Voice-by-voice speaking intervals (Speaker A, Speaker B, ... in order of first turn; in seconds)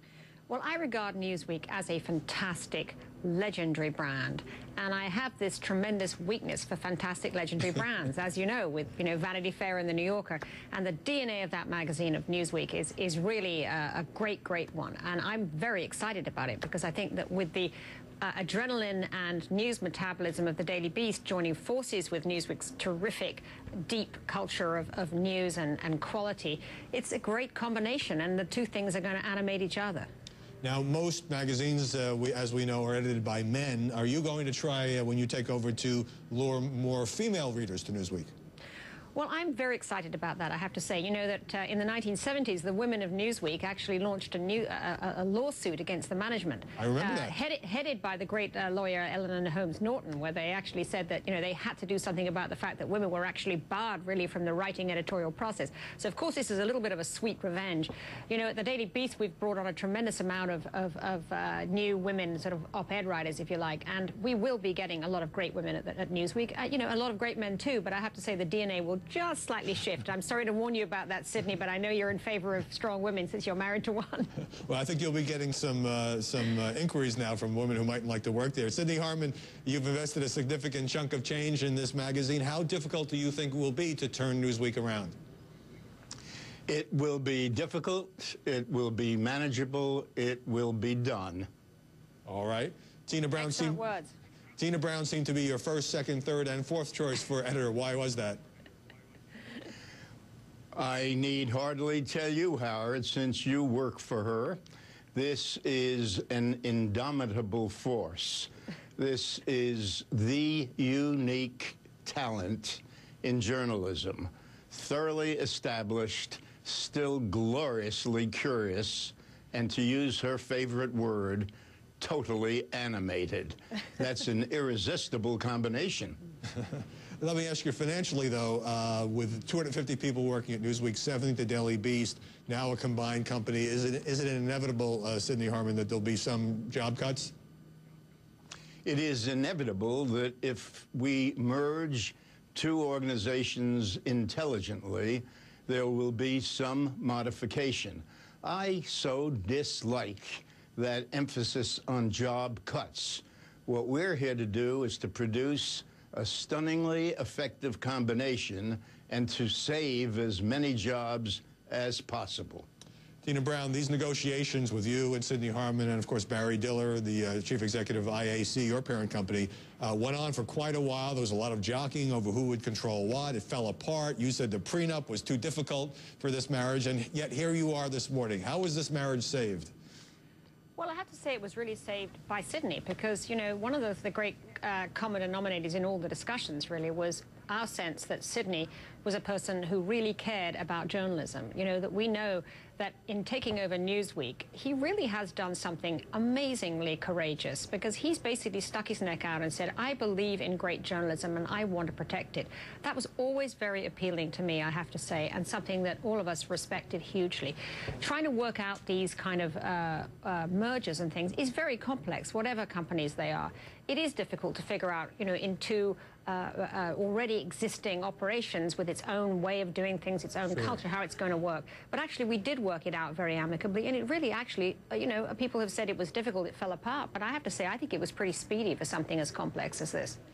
Speaker A: 0.5-30.1, 39.1-74.3, 93.4-94.1, 180.8-230.2
Speaker B: 30.6-38.3, 46.8-47.3, 74.7-85.1, 92.2-93.8, 94.6-98.4, 126.5-137.3, 163.2-179.7
Speaker C: 86.7-91.5, 100.7-104.6, 105.1-126.2, 138.8-162.7